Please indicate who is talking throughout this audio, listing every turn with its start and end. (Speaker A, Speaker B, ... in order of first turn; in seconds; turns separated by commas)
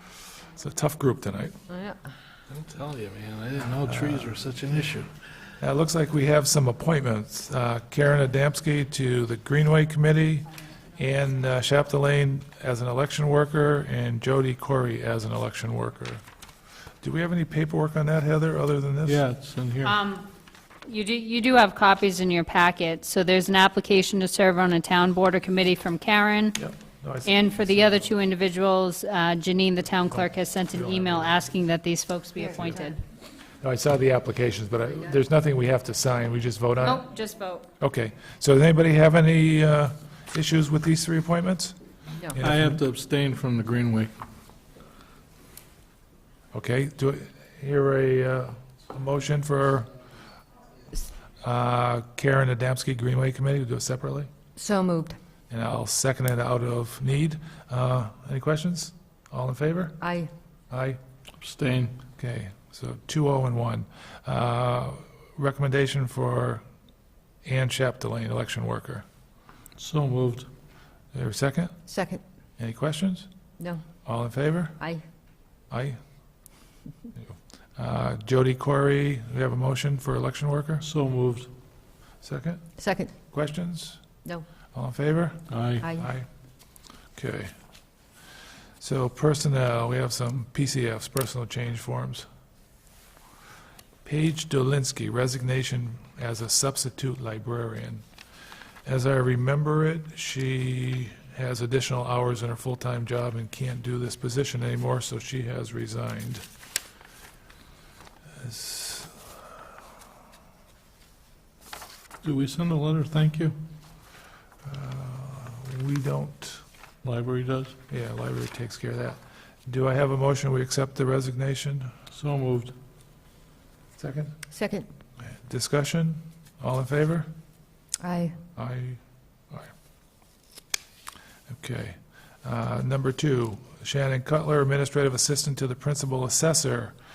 Speaker A: 0.5-1.6, Speaker B: 1.7-2.1, Speaker C: 2.5-5.1, Speaker A: 3.8-4.4, Speaker A: 5.6-10.5, Speaker A: 11.0-16.2, Speaker A: 17.0-19.2, Speaker C: 19.0-19.9, Speaker D: 19.8-20.3, Speaker D: 20.9-26.6, Speaker A: 26.6-28.1, Speaker D: 27.2-33.0, Speaker A: 30.7-31.5, Speaker A: 33.6-37.0, Speaker D: 36.8-37.7, Speaker A: 37.8-42.8, Speaker C: 42.4-44.1, Speaker A: 46.5-49.9, Speaker A: 51.4-54.3, Speaker B: 54.5-55.1, Speaker A: 55.5-60.0, Speaker B: 60.0-60.3, Speaker A: 60.7-61.0, Speaker C: 61.4-61.9, Speaker A: 62.1-66.6, Speaker A: 67.4-69.0, Speaker C: 69.8-70.5, Speaker A: 71.1-71.7, Speaker B: 71.9-72.2, Speaker A: 72.6-73.3, Speaker A: 74.0-74.8, Speaker A: 75.7-76.0, Speaker A: 77.2-80.8, Speaker C: 80.8-81.5, Speaker A: 82.2-82.6, Speaker B: 82.8-83.1, Speaker A: 83.3-84.0, Speaker A: 84.7-86.3, Speaker C: 85.5-85.8, Speaker B: 85.8-86.1, Speaker A: 87.1-87.5, Speaker A: 88.8-92.2, Speaker A: 94.0-98.0, Speaker A: 98.8-106.4, Speaker A: 108.3-109.3, Speaker C: 112.2-113.5, Speaker A: 114.6-116.6, Speaker C: 117.0-117.7, Speaker A: 117.9-121.9, Speaker C: 122.1-122.7, Speaker A: 124.0-124.4, Speaker B: 124.5-124.8, Speaker A: 125.2-127.3, Speaker B: 128.0-128.3, Speaker A: 128.6-129.7, Speaker A: 131.5-136.9